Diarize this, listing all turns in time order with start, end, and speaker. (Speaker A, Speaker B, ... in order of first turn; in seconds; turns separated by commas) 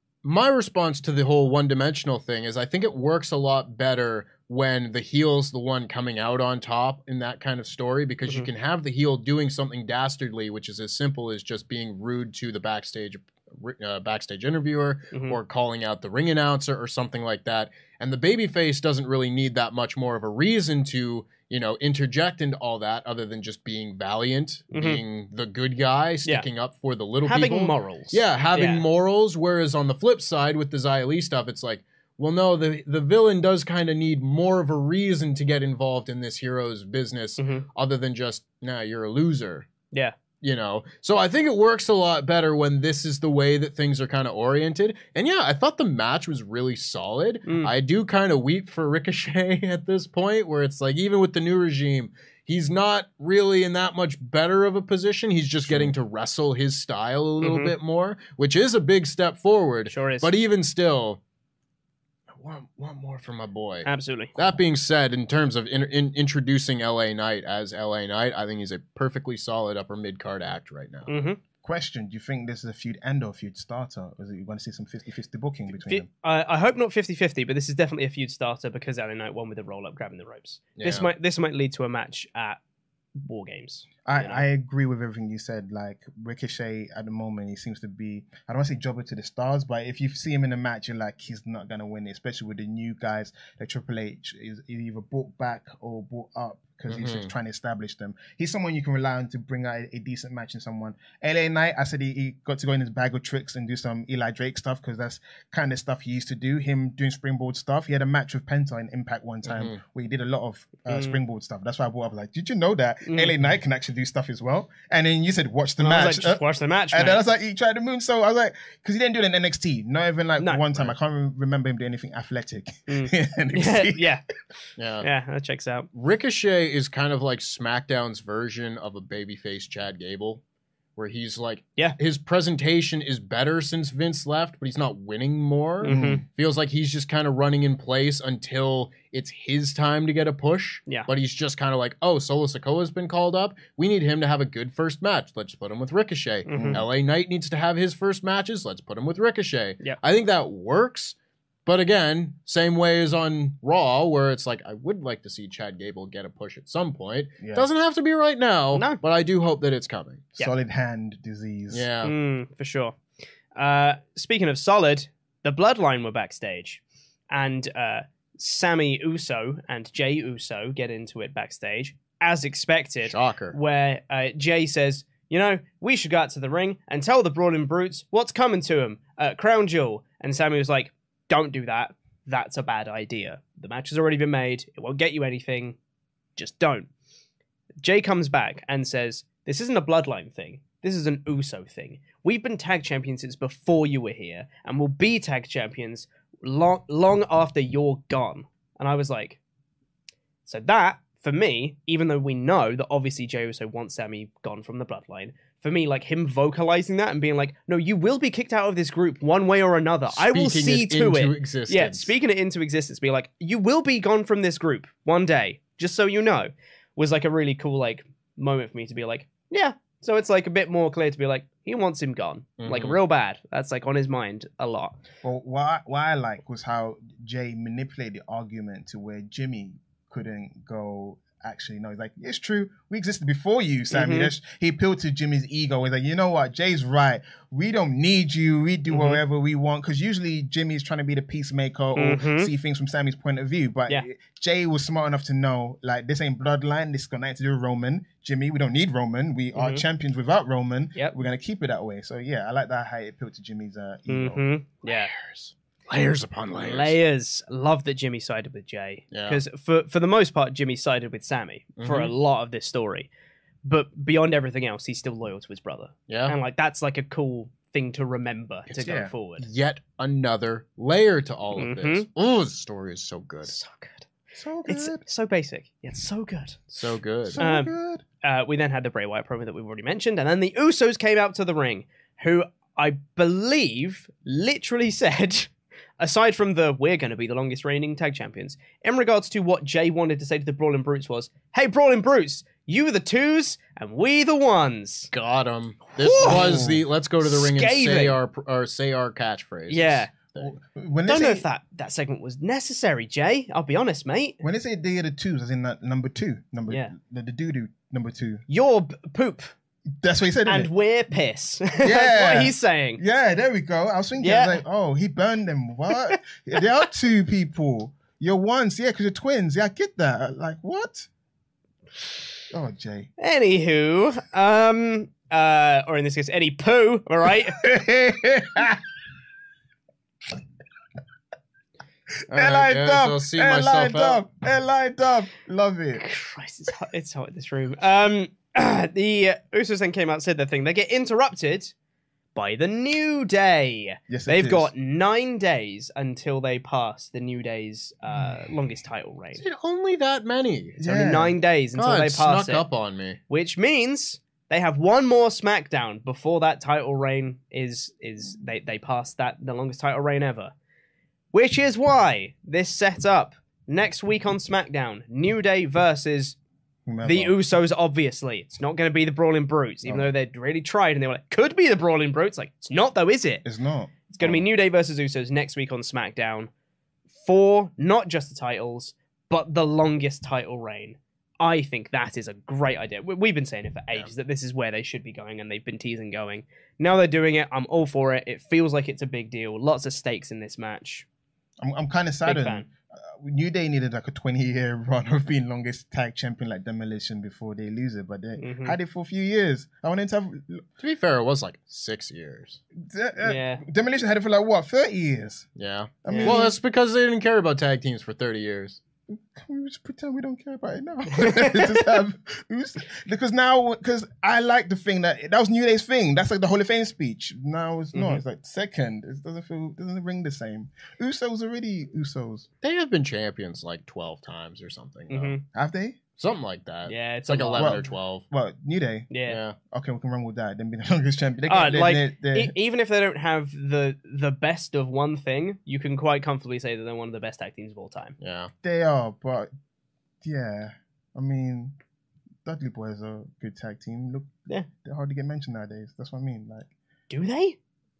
Speaker A: 0.2-39.7, Speaker B: 15.1-15.4, Speaker B: 24.7-25.0, Speaker B: 27.2-28.8, Speaker B: 37.4-37.6, Speaker A: 40.4-61.2, Speaker C: 55.7-55.9, Speaker B: 57.4-57.7, Speaker B: 59.9-60.3, Speaker A: 62.3-71.1, Speaker B: 63.8-64.4, Speaker B: 71.1-71.4, Speaker C: 71.6-76.1, Speaker B: 75.8-82.6, Speaker A: 80.8-81.1, Speaker B: 83.2-84.4, Speaker C: 84.0-124.1, Speaker A: 96.9-97.3, Speaker A: 109.5-109.8, Speaker B: 110.9-111.2, Speaker B: 113.0-113.3, Speaker B: 115.8-117.2, Speaker B: 122.9-124.2, Speaker A: 124.8-125.1, Speaker B: 125.0-125.9, Speaker A: 125.9-130.4, Speaker A: 131.0-160.3, Speaker B: 135.8-136.2, Speaker C: 135.8-136.2, Speaker B: 146.5-146.8, Speaker C: 146.5-146.8, Speaker C: 157.4-157.7, Speaker B: 158.7-159.0, Speaker C: 160.4-161.8, Speaker A: 161.7-162.1, Speaker B: 162.0-162.9, Speaker B: 163.5-185.8, Speaker A: 173.0-173.6, Speaker B: 186.3-186.9, Speaker B: 187.8-199.4, Speaker B: 200.4-225.0, Speaker A: 210.1-212.1, Speaker A: 222.6-223.0, Speaker C: 225.2-254.4, Speaker B: 233.9-234.3, Speaker B: 238.9-239.2, Speaker B: 241.9-242.5, Speaker B: 249.5-249.8, Speaker B: 254.1-255.1, Speaker A: 254.8-256.9, Speaker B: 256.6-263.1, Speaker A: 259.1-259.4, Speaker A: 261.8-262.1, Speaker B: 263.6-269.4, Speaker A: 266.1-266.4, Speaker A: 268.7-273.5, Speaker B: 271.6-272.1, Speaker B: 273.4-274.1, Speaker C: 274.3-275.0, Speaker B: 274.6-276.7, Speaker A: 276.7-277.4, Speaker C: 277.2-278.0, Speaker B: 277.4-295.1, Speaker A: 295.1-300.5, Speaker B: 295.9-296.6, Speaker C: 296.2-296.8, Speaker B: 297.2-298.2, Speaker B: 299.7-300.1, Speaker C: 300.4-301.4, Speaker B: 301.1-304.4, Speaker C: 304.4-308.4, Speaker B: 306.7-306.9, Speaker B: 308.5-309.5, Speaker C: 310.0-310.7, Speaker B: 310.4-313.0, Speaker C: 311.8-321.1, Speaker B: 314.2-314.6, Speaker C: 322.5-323.1, Speaker B: 323.2-327.6, Speaker C: 327.5-328.8, Speaker C: 332.3-336.0, Speaker A: 332.3-334.2, Speaker B: 335.9-341.7, Speaker B: 342.3-349.4, Speaker C: 344.1-344.7, Speaker A: 349.4-350.8, Speaker C: 350.8-351.4, Speaker B: 350.8-352.6, Speaker A: 351.7-353.2, Speaker B: 353.3-360.5, Speaker B: 361.3-366.4, Speaker C: 366.9-367.4, Speaker B: 367.0-373.4, Speaker C: 369.8-370.1, Speaker C: 373.4-374.4, Speaker B: 374.1-376.5, Speaker B: 377.2-391.1, Speaker C: 391.6-400.6, Speaker B: 392.2-392.7, Speaker B: 398.4-398.8, Speaker A: 400.8-402.6, Speaker C: 402.8-405.5, Speaker B: 403.2-403.6, Speaker A: 405.6-408.8, Speaker C: 406.0-406.5, Speaker B: 406.1-406.4, Speaker C: 409.1-422.5, Speaker B: 411.1-411.9, Speaker B: 417.9-418.2, Speaker A: 422.6-425.4, Speaker B: 425.1-425.4, Speaker C: 425.5-426.0, Speaker A: 426.2-428.2, Speaker B: 426.9-427.8, Speaker C: 427.6-429.1, Speaker B: 429.1-429.4, Speaker A: 429.2-429.6, Speaker C: 429.6-432.5, Speaker B: 431.5-438.1, Speaker A: 438.2-438.5, Speaker C: 438.6-439.5, Speaker C: 440.2-441.7, Speaker C: 442.4-446.7, Speaker B: 447.1-447.6